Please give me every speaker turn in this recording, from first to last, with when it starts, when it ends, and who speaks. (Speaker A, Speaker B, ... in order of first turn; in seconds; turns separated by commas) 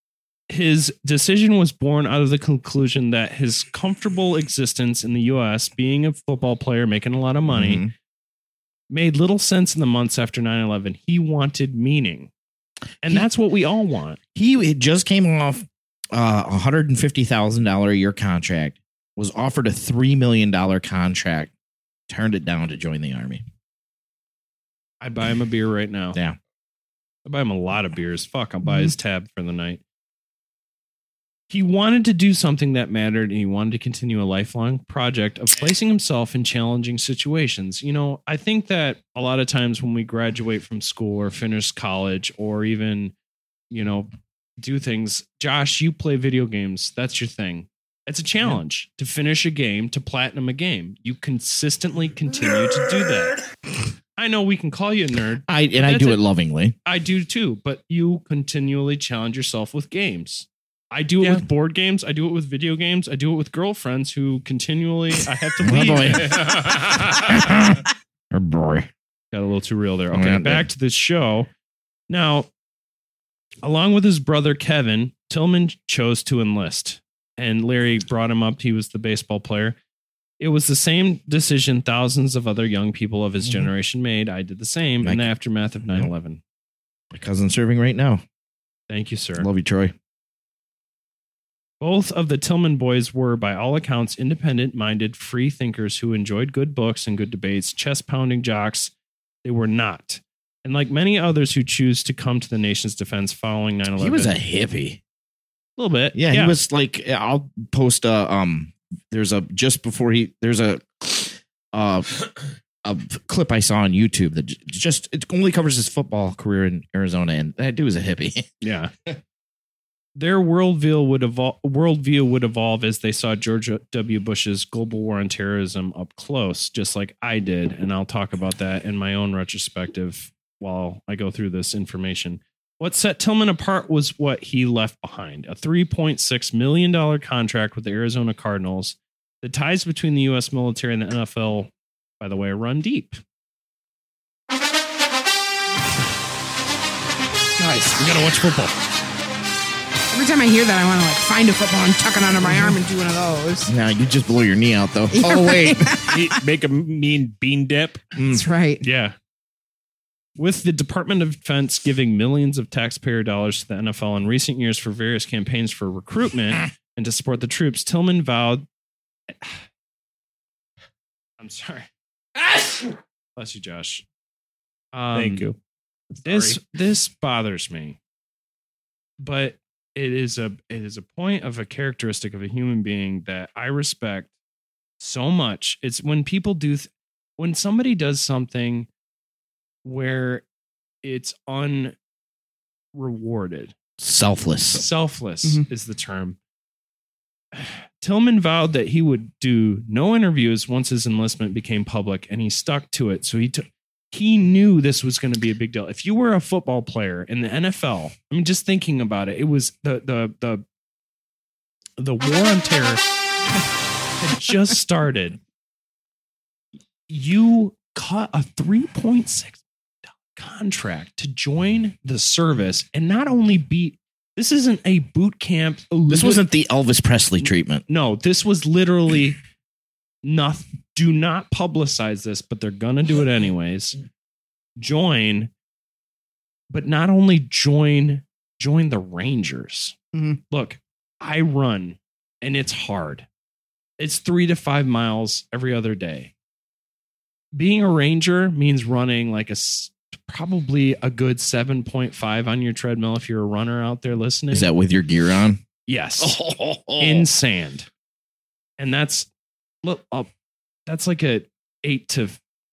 Speaker A: 0.5-7.8, Speaker B: 7.5-7.9, Speaker A: 8.9-12.3, Speaker A: 13.0-14.2, Speaker B: 14.4-21.5, Speaker B: 22.1-23.4, Speaker A: 25.0-26.2, Speaker A: 27.3-29.8, Speaker A: 31.5-43.1, Speaker A: 43.7-53.4, Speaker A: 54.2-56.2, Speaker B: 55.5-56.8, Speaker A: 56.9-66.5, Speaker B: 65.6-68.9, Speaker C: 66.4-67.1, Speaker A: 69.3-71.5, Speaker B: 70.1-70.7, Speaker A: 72.1-72.5, Speaker A: 73.6-79.8, Speaker A: 80.4-86.4, Speaker B: 83.4-83.7, Speaker B: 85.0-85.3, Speaker B: 85.8-86.1, Speaker B: 87.1-88.2, Speaker A: 88.9-89.5, Speaker B: 89.4-90.0, Speaker A: 91.8-98.9, Speaker A: 99.4-104.3, Speaker B: 104.0-105.0, Speaker A: 105.8-106.6, Speaker B: 106.1-112.1, Speaker B: 112.8-118.5, Speaker A: 118.6-118.9, Speaker A: 120.2-143.2, Speaker D: 147.6-147.9, Speaker A: 147.7-148.8, Speaker D: 150.1-153.7, Speaker B: 153.7-155.9, Speaker D: 155.1-156.2, Speaker C: 156.1-158.1, Speaker B: 158.2-158.4, Speaker D: 158.3-158.8, Speaker A: 158.8-159.2, Speaker A: 160.4-168.7, Speaker A: 171.4-171.9, Speaker A: 173.4-174.1, Speaker A: 174.9-175.5, Speaker C: 175.1-175.6, Speaker C: 176.2-176.6, Speaker A: 176.2-178.0, Speaker A: 179.2-184.3, Speaker A: 185.0-188.9, Speaker A: 189.8-190.4, Speaker A: 191.0-191.9, Speaker A: 192.9-193.8, Speaker B: 194.0-194.8, Speaker A: 194.7-196.4, Speaker A: 197.5-210.6, Speaker A: 212.0-213.0, Speaker A: 214.2-215.4, Speaker A: 217.1-226.4, Speaker B: 226.1-227.8, Speaker A: 227.4-229.4, Speaker A: 230.2-234.0, Speaker A: 234.8-235.5, Speaker A: 236.7-240.0, Speaker A: 240.5-243.3, Speaker A: 244.0-246.3, Speaker A: 247.5-254.7, Speaker B: 254.5-255.6, Speaker A: 255.9-256.4, Speaker B: 256.2-257.3, Speaker A: 257.0-257.9, Speaker A: 258.8-259.3, Speaker A: 259.8-260.3, Speaker A: 260.9-262.4